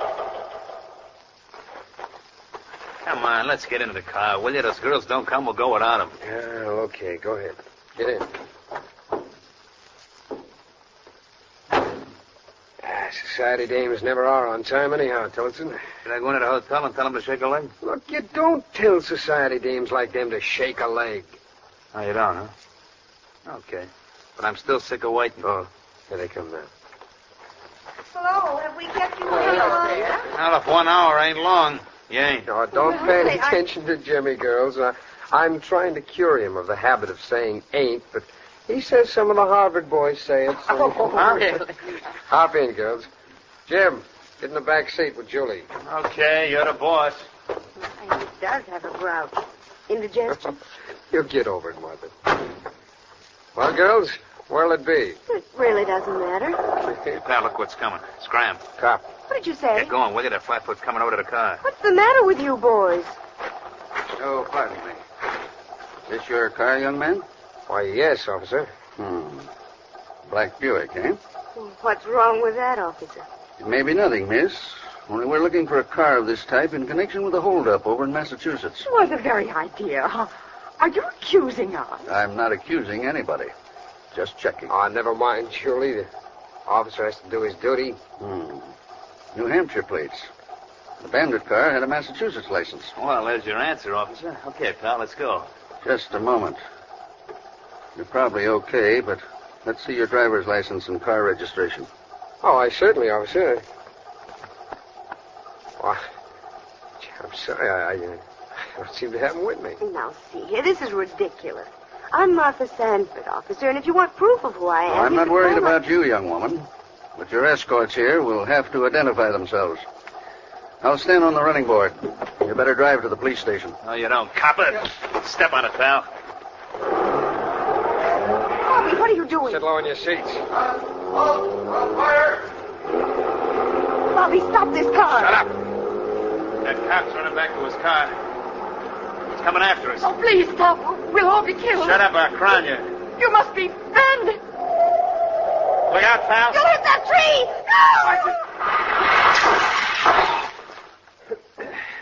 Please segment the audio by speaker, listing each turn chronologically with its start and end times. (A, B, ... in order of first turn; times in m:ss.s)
0:03.0-0:06.1 A
0:06.2-0:08.3 B
0:12.8-0:15.8 B
0:16.0-0:17.7 A
0:17.8-0:21.4 B
0:21.9-0:22.5 A
0:23.4-0:25.4 A
0:25.4-0:26.7 B
0:28.1-0:30.2 C
0:29.3-0:30.0 B
0:30.3-0:32.5 A
0:32.4-0:41.5 B
0:32.7-0:33.6 C
0:41.1-0:41.5 A
0:42.3-0:43.1 B
0:43.7-0:45.7 B
0:45.8-0:47.3 A
0:47.8-0:50.4 C
0:51.1-0:52.1 B
0:53.5-0:55.2 B
0:55.3-0:56.6 C
0:56.8-0:57.1 B
0:57.1-0:58.6 A
0:58.8-0:59.1 B
0:59.3-0:59.9 C
0:59.7-1:01.6 A
1:01.6-1:03.2 C
1:04.2-1:05.0 D
1:06.1-1:07.2 D
1:07.7-1:08.7 B
1:09.0-1:09.5 D
1:10.2-1:11.2 D
1:11.5-1:13.2 C
1:13.6-1:18.8 D
1:18.8-1:22.1 E
1:22.0-1:23.5 D
1:24.1-1:24.7 D
1:24.7-1:26.1 B
1:26.6-1:28.0 B
1:28.2-1:28.7 D
1:29.3-1:30.3 D
1:31.0-1:32.9 D
1:33.0-1:35.5 A
1:35.8-1:36.6 D
1:38.0-1:41.9 D
1:42.4-1:43.6 B
1:47.0-1:48.2 B
1:48.7-1:49.8 B
1:49.8-1:55.8 C
1:54.9-1:59.8 D
2:00.8-2:03.8 D
2:03.8-2:06.1 A
2:08.6-2:09.6 C
2:09.4-2:10.4 B
2:14.1-2:15.4 C
2:15.1-2:15.5 B
2:16.6-2:18.2 A
2:19.3-2:20.1 A
2:20.0-2:22.0 E
2:21.8-2:22.9 A
2:23.2-2:24.4 E
2:25.9-2:26.6 A
2:26.5-2:28.2 C